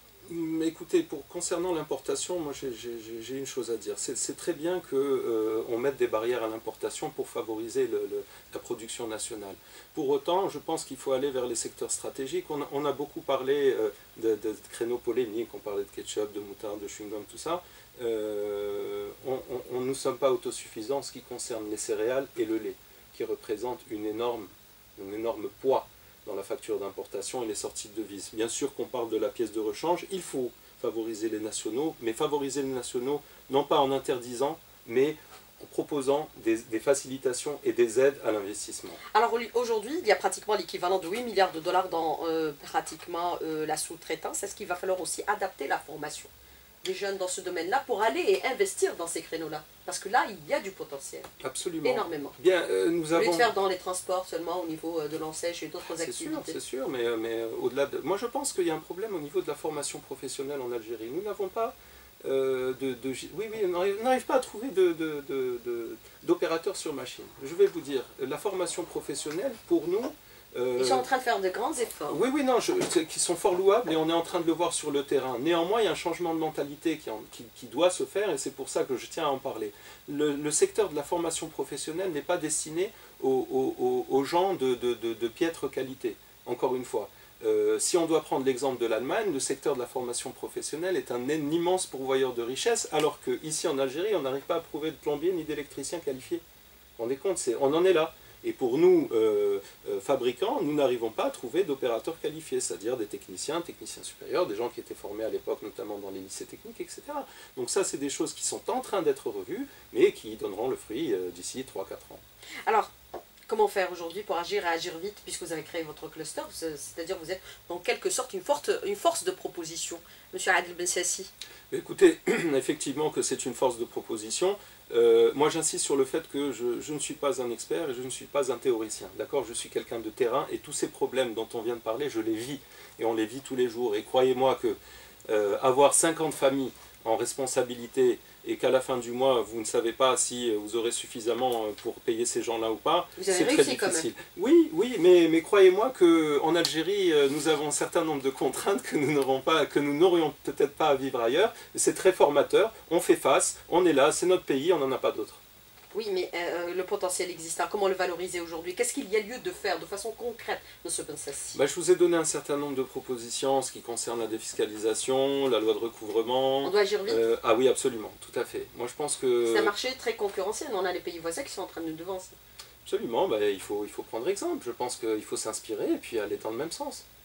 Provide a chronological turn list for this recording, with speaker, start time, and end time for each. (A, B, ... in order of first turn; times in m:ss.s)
0:00.3-0:39.0 A
0:39.1-0:46.3 B
0:46.8-0:51.3 B
0:51.4-0:53.5 A
0:51.8-0:52.4 B
0:53.1-0:56.6 B
0:56.0-1:11.1 A
1:10.8-1:12.2 B
1:12.1-1:36.4 A
1:37.0-1:52.2 A
1:53.5-2:01.3 B
2:01.7-2:14.8 A
2:15.3-2:35.4 A
2:23.2-2:24.1 B
2:35.9-2:41.6 B
2:41.5-2:49.7 A
2:46.6-2:47.2 B
2:49.4-2:52.4 B
2:52.8-2:57.0 A